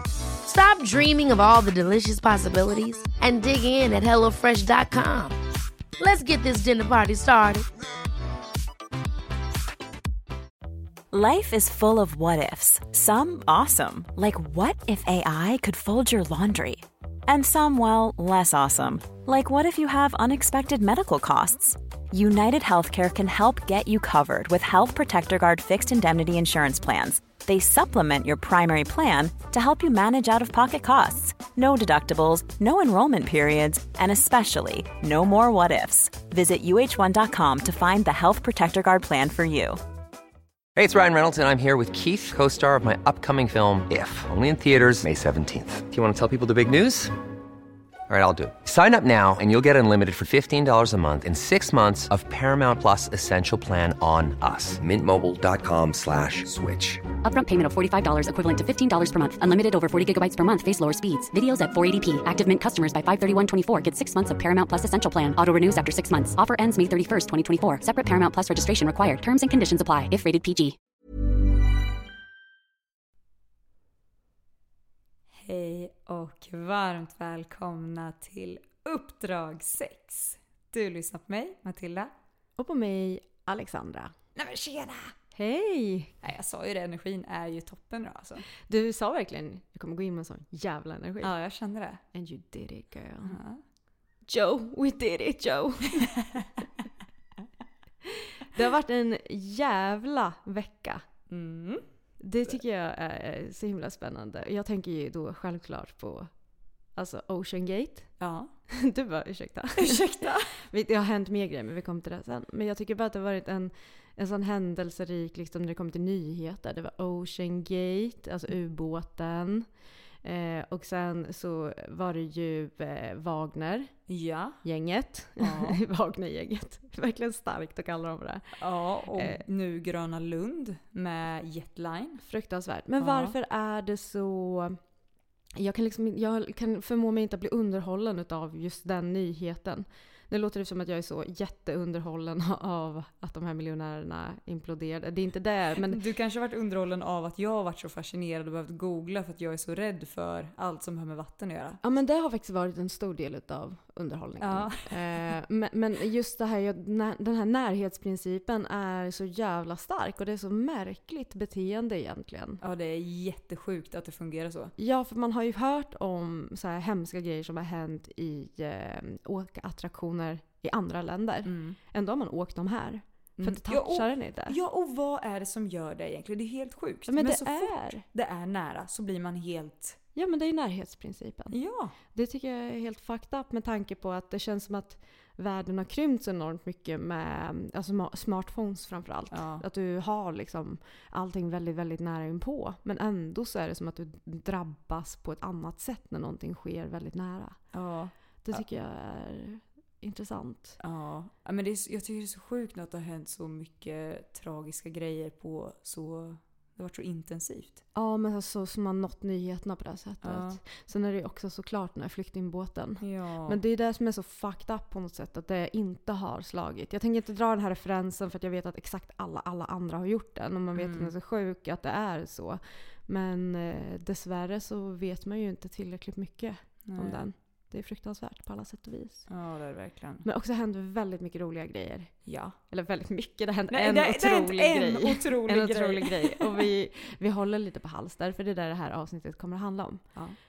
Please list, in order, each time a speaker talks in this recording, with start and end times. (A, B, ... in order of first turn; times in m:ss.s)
0:00.4-0:05.4 A
0:06.0-0:07.7 A
0:11.1-0:39.8 B
0:40.8-0:47.2 C
0:48.1-0:57.1 C
0:57.2-1:10.8 D
1:15.3-1:22.1 E
1:22.6-1:24.1 F
1:24.4-1:25.2 E
1:25.4-1:26.2 F
1:26.2-1:28.5 E
1:28.6-1:31.4 F
1:31.2-1:32.0 E
1:32.1-1:33.4 F
1:33.2-1:33.6 E
1:34.3-1:36.1 F
1:38.4-1:41.0 F
1:41.3-1:41.9 E
1:42.2-1:46.4 F
1:46.9-1:48.2 F
1:48.2-1:48.5 E
1:48.7-2:04.0 F
1:49.8-1:50.5 E
2:04.1-2:04.6 E
2:04.6-2:08.6 F
2:05.4-2:05.8 E
2:08.6-2:12.2 E
2:09.1-2:09.4 F
2:12.2-2:14.8 F
2:13.0-2:13.4 E
2:15.6-2:26.0 F
2:25.9-2:31.8 E
2:31.8-2:42.6 F
2:34.4-2:35.2 E
2:42.6-2:44.7 E
2:44.8-2:54.6 F
2:51.4-2:51.8 E
2:53.4-3:00.0 E
2:57.1-2:58.0 F
3:00.1-3:17.7 F
3:01.5-3:02.0 E
3:09.3-3:09.6 E
3:17.7-3:18.6 E
3:18.4-3:20.8 F
3:20.8-3:27.8 E
3:28.0-3:49.3 F
3:30.2-3:30.6 E
3:33.0-3:33.6 E
3:40.8-3:41.1 E
3:46.8-3:47.3 E
3:49.3-3:50.3 E
3:50.2-4:00.2 F
3:52.3-3:52.6 E
3:53.7-3:56.6 E